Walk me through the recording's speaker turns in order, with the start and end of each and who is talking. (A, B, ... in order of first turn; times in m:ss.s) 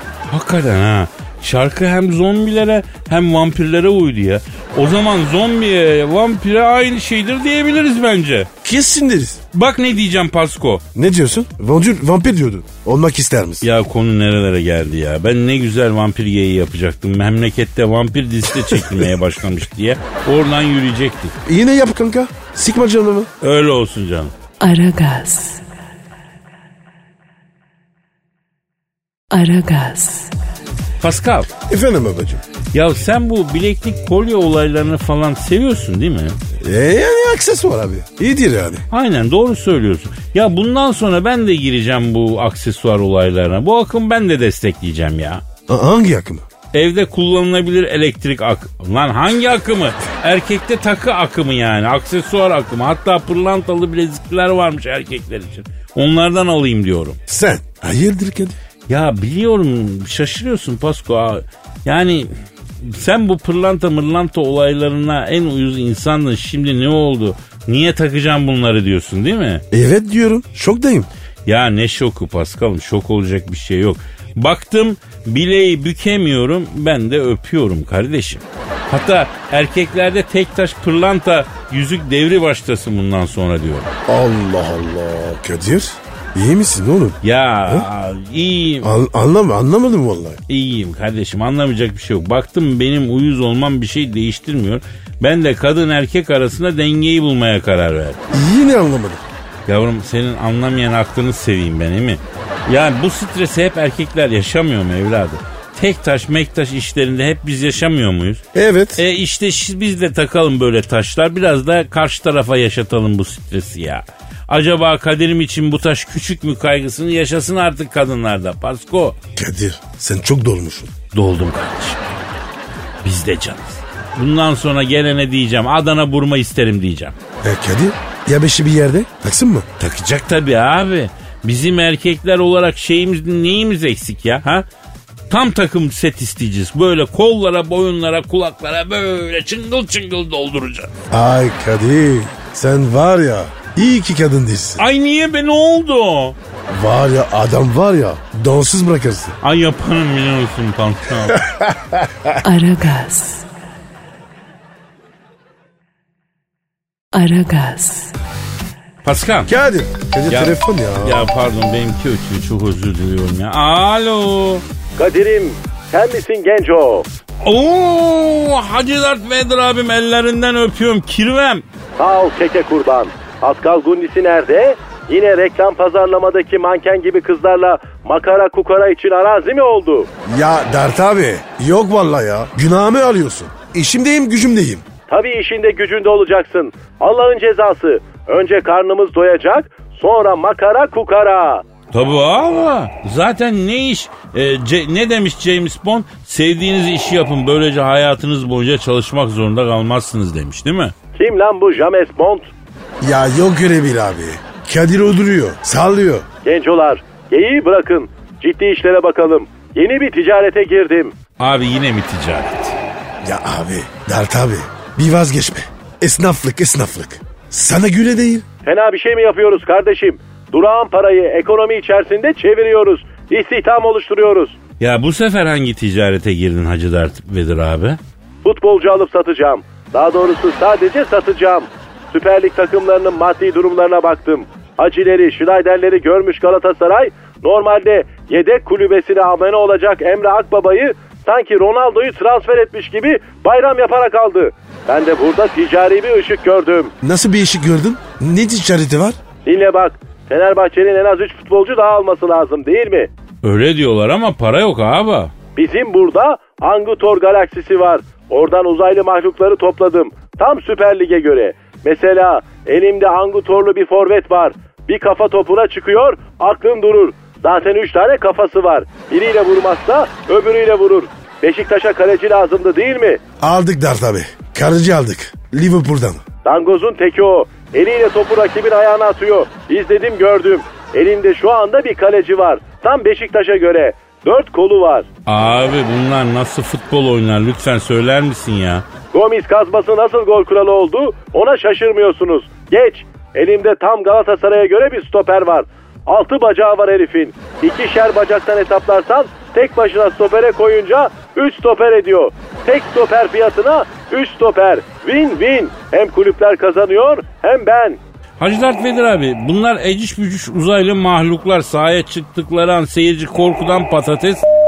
0:00.3-0:08.5 A
0:08.6-0:09.4 B
0:09.5-0:10.8 A
0:10.9-0:13.6 B
0:13.6-0:21.3 A
0:18.7-0:19.1 B
0:21.4-0:23.3 B
0:23.4-0:24.3 A
0:24.6-0:25.6 C
0:29.3-0:30.4 C
0:31.0-0:31.5 A
0:31.7-0:32.4 B
0:32.7-0:36.4 A
0:36.6-0:38.8 B
0:38.9-0:45.4 A
0:45.7-0:46.4 B
0:46.7-0:57.2 A
0:57.3-0:58.6 B
0:58.9-1:02.3 A
1:02.8-1:09.6 A
1:09.7-1:11.1 B
1:11.4-1:23.9 A
1:24.1-1:27.9 B
1:27.2-1:28.9 A
1:28.8-1:30.4 B
1:30.5-1:38.2 A
1:38.3-1:39.2 B
1:39.7-1:48.4 A
1:48.5-1:49.0 B
1:49.0-1:59.2 A
1:59.4-2:00.9 B
2:01.1-2:02.4 A
2:03.0-2:07.1 A
2:07.4-2:09.7 B
2:09.8-2:14.6 A
2:15.3-2:20.9 A
2:21.1-2:24.8 B
2:24.8-2:26.4 A
2:26.7-2:29.4 B
2:29.4-2:31.4 A
2:31.3-2:32.3 B
2:32.4-2:33.5 C
2:37.1-2:38.1 C
2:39.0-2:39.5 A
2:39.5-2:41.3 B
2:40.3-2:44.6 A
2:45.0-2:47.1 D
2:47.4-2:51.6 A
2:52.0-3:00.1 D
3:00.2-3:04.8 B
3:05.1-3:11.6 D
3:11.9-3:20.9 A
3:21.1-3:22.5 D
3:23.0-3:26.3 B
3:26.4-3:31.1 D
3:31.4-3:32.8 A
3:33.2-3:38.4 B
3:38.6-3:44.6 D
3:44.8-3:48.0 A
3:48.4-4:06.9 D
4:07.0-4:09.2 B
4:09.4-4:13.1 D
4:13.4-4:15.3 A
4:15.6-4:33.2 D
4:33.4-4:36.2 B
4:36.4-4:45.1 D
4:45.2-4:48.8 A
4:49.1-5:08.0 D
5:08.4-5:14.4 A